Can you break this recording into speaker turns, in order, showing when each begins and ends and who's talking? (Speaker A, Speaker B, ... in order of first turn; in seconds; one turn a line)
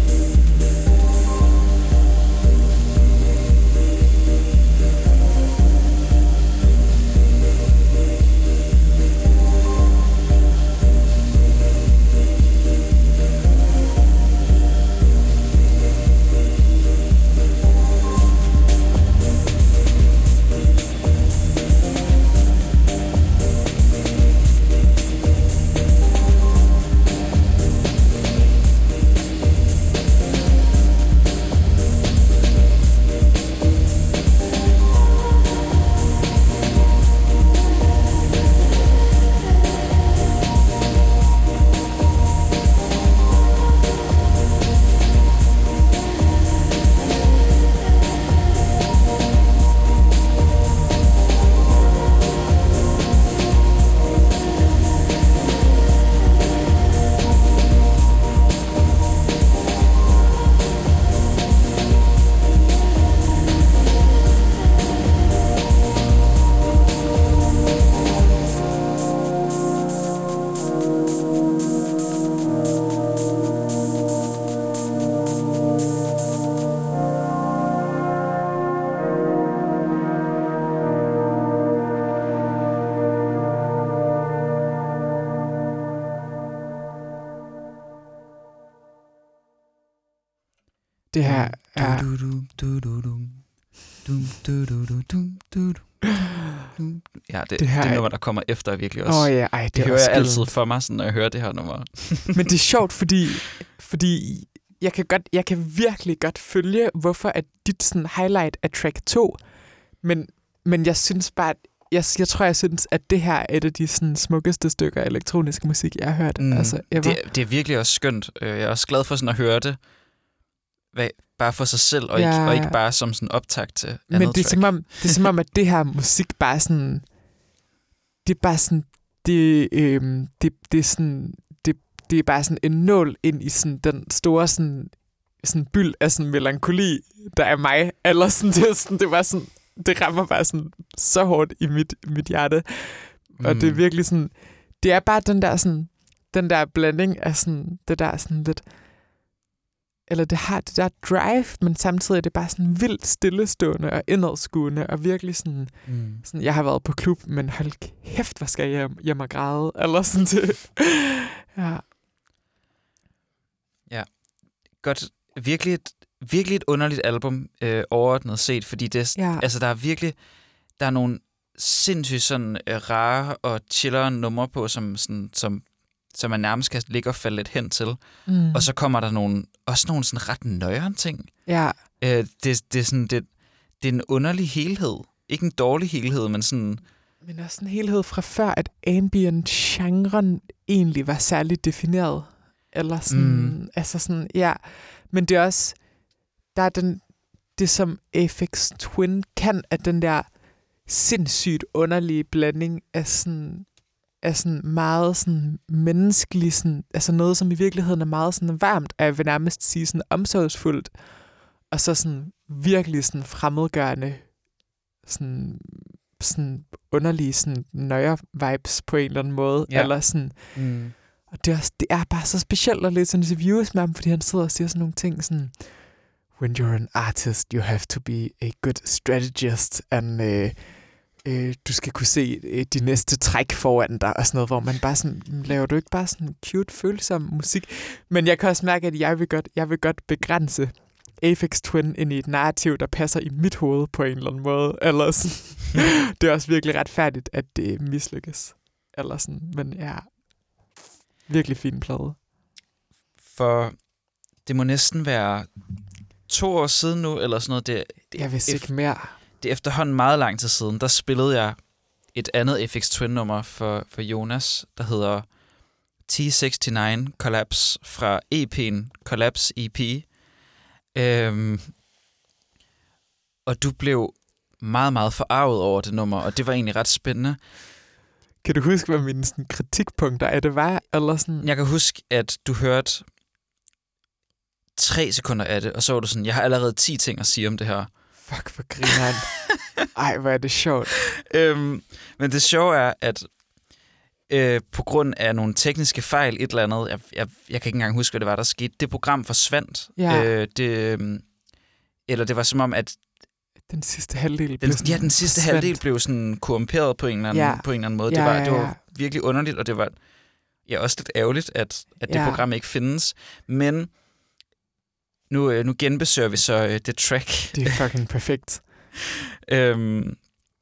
Speaker A: 91.1-92.1
Speaker B: 91.2-102.4
Speaker A: 97.6-98.2
Speaker A: 99.0-100.6
Speaker A: 102.3-117.2
Speaker B: 116.4-119.9
Speaker B: 120.9-125.2
Speaker A: 122.1-122.8
Speaker A: 124.1-127.2
Speaker A: 128.2-149.0
Speaker B: 143.4-143.8
Speaker A: 150.1-161.9
Speaker B: 155.8-156.2
Speaker B: 163.9-181.4
Speaker A: 169.1-169.4
Speaker A: 178.2-178.7
Speaker A: 181.4-181.8
Speaker B: 182.0-186.8
Speaker A: 187.2-252.2
Speaker B: 193.1-193.6
Speaker B: 219.7-220.9
Speaker B: 253.2-255.7
Speaker B: 256.2-265.4
Speaker A: 258.1-259.2
Speaker B: 266.0-270.1
Speaker B: 270.9-271.8
Speaker B: 273.4-277.4
Speaker A: 278.4-281.5
Speaker B: 281.4-283.1
Speaker B: 284.7-288.5
Speaker A: 288.2-291.1
Speaker B: 291.3-293.4
Speaker B: 294.3-301.4
Speaker A: 299.9-300.3
Speaker B: 302.0-303.0
Speaker A: 303.6-305.9
Speaker B: 304.6-314.0
Speaker A: 307.3-308.8
Speaker A: 312.1-312.4
Speaker B: 315.3-317.7
Speaker A: 317.5-318.6
Speaker B: 319.5-320.4